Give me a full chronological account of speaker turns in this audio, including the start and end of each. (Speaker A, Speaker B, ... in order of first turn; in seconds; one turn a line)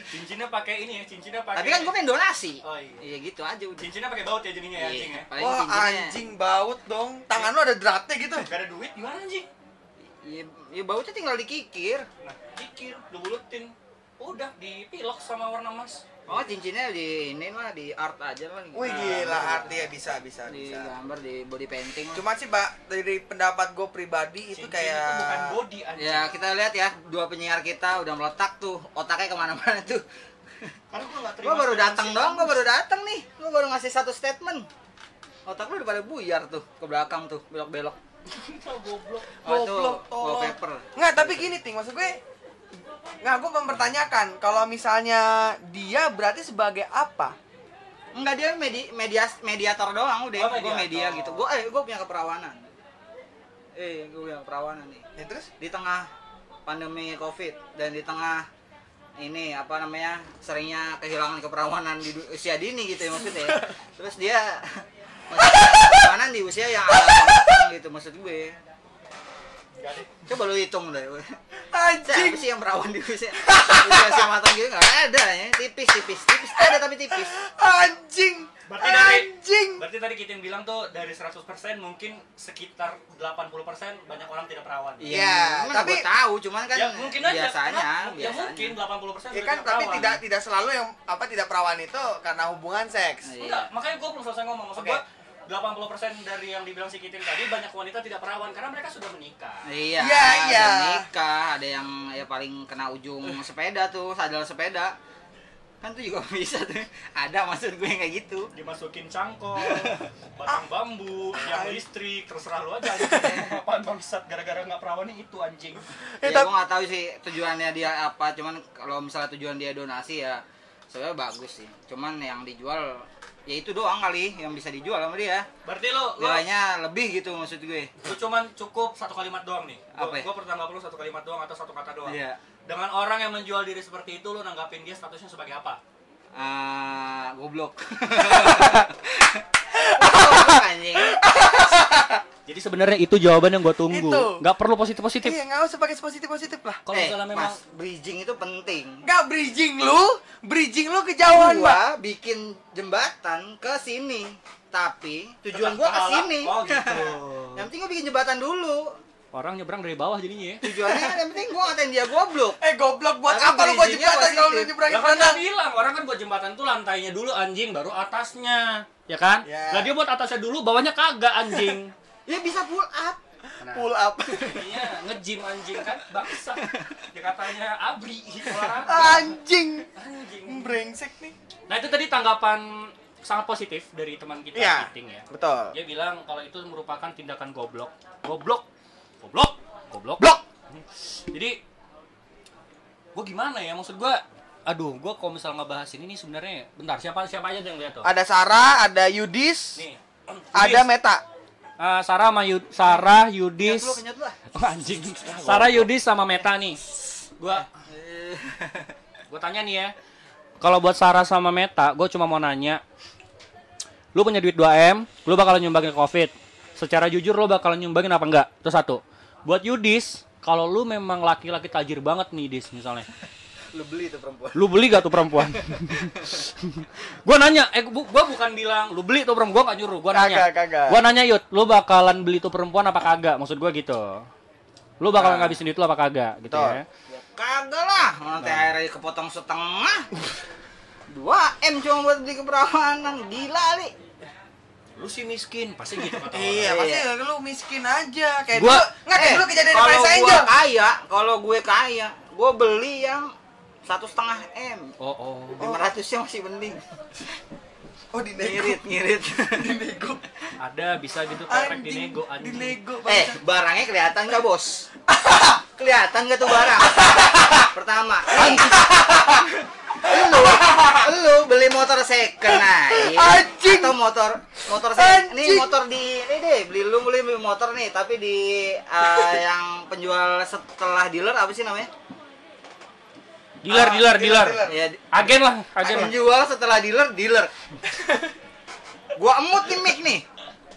Speaker A: 0.1-1.9
Speaker B: 1.5-3.9
Speaker A: 2.6-3.0
Speaker A: 3.8-5.3
Speaker B: 4.8-6.2
Speaker C: 5.4-8.5
Speaker A: 8.4-9.5
Speaker B: 10.2-12.1
Speaker A: 12.2-16.5
Speaker B: 16.3-19.7
Speaker C: 18.7-20.9
Speaker A: 18.8-19.6
Speaker B: 20.5-22.2
Speaker C: 22.1-25.5
Speaker A: 24.5-26.3
Speaker B: 26.0-30.0
Speaker A: 30.9-32.6
Speaker B: 31.4-34.7
Speaker B: 35.5-38.0
Speaker A: 38.3-39.4
Speaker B: 39.4-41.5
Speaker C: 39.4-42.2
Speaker C: 43.2-47.4
Speaker B: 48.1-52.7
Speaker A: 50.4-51.5
Speaker B: 53.8-55.0
Speaker C: 55.2-55.5
Speaker B: 55.6-56.1
Speaker B: 56.7-58.5
Speaker B: 59.2-68.6
Speaker C: 63.3-63.6
Speaker C: 65.4-66.1
Speaker C: 66.9-67.7
Speaker A: 69.8-70.1
Speaker B: 70.3-71.4
Speaker C: 71.7-72.5
Speaker B: 72.0-77.3
Speaker C: 73.4-74.2
Speaker C: 76.5-79.8
Speaker A: 78.7-85.1
Speaker B: 85.0-88.8
Speaker C: 85.1-86.0
Speaker A: 86.7-90.2
Speaker C: 89.3-93.3
Speaker B: 93.3-93.7
Speaker A: 93.4-99.7
Speaker B: 99.7-105.0
Speaker C: 100.0-101.1
Speaker B: 105.8-108.5
Speaker A: 108.5-115.8
Speaker B: 109.6-110.0
Speaker C: 111.3-111.8
Speaker C: 116.2-116.5
Speaker B: 116.2-125.5
Speaker A: 125.6-126.4
Speaker B: 126.2-127.9
Speaker A: 128.0-135.8
Speaker B: 129.9-130.3
Speaker B: 132.1-132.4
Speaker B: 136.3-139.5
Speaker C: 138.3-138.9
Speaker C: 139.7-142.2
Speaker B: 140.0-141.3
Speaker A: 142.5-145.4
Speaker C: 143.9-144.4
Speaker C: 145.2-146.8
Speaker A: 146.9-147.6
Speaker B: 146.9-149.0
Speaker C: 149.0-151.8
Speaker B: 151.3-158.9
Speaker A: 155.5-157.7
Speaker A: 159.3-161.2
Speaker B: 160.6-162.6
Speaker C: 162.6-165.4
Speaker B: 163.3-164.8
Speaker A: 164.9-171.9
Speaker C: 169.4-169.9
Speaker B: 172.3-173.2
Speaker C: 173.6-174.8
Speaker A: 173.6-179.3
Speaker C: 178.6-179.9
Speaker A: 179.9-180.8
Speaker C: 180.5-181.3
Speaker A: 181.7-188.7
Speaker C: 184.6-185.7
Speaker A: 189.2-191.6
Speaker A: 193.2-198.1
Speaker C: 198.0-199.8
Speaker A: 199.8-200.9
Speaker C: 200.5-201.2
Speaker A: 201.8-204.0
Speaker B: 202.9-204.4
Speaker A: 204.5-206.8
Speaker C: 205.3-205.9
Speaker A: 207.4-207.7
Speaker B: 207.8-208.9
Speaker A: 209.3-209.9
Speaker A: 210.6-212.8
Speaker A: 214.1-223.1
Speaker B: 223.7-224.8
Speaker A: 224.6-234.3
Speaker B: 225.9-226.4
Speaker C: 230.1-231.0
Speaker A: 235.0-236.8
Speaker C: 235.2-235.6
Speaker C: 236.5-236.8
Speaker B: 237.1-240.1
Speaker A: 238.4-238.7
Speaker B: 241.1-243.9
Speaker A: 245.0-246.7
Speaker C: 246.3-250.5
Speaker B: 246.6-247.1
Speaker A: 248.6-248.9
Speaker B: 249.1-253.3
Speaker B: 253.9-254.9
Speaker A: 255.0-255.6
Speaker B: 255.6-256.8
Speaker C: 255.6-255.8
Speaker C: 258.1-258.8
Speaker B: 258.4-259.7
Speaker C: 259.5-260.2
Speaker A: 260.6-262.8
Speaker C: 261.5-263.4
Speaker B: 263.1-264.9
Speaker C: 265.1-265.6
Speaker B: 265.8-269.4
Speaker C: 266.6-267.7
Speaker C: 268.3-271.0
Speaker B: 270.0-281.9
Speaker C: 272.5-274.0
Speaker C: 274.7-275.8
Speaker A: 283.6-286.1
Speaker C: 283.7-284.8
Speaker B: 284.6-287.5
Speaker B: 289.1-290.2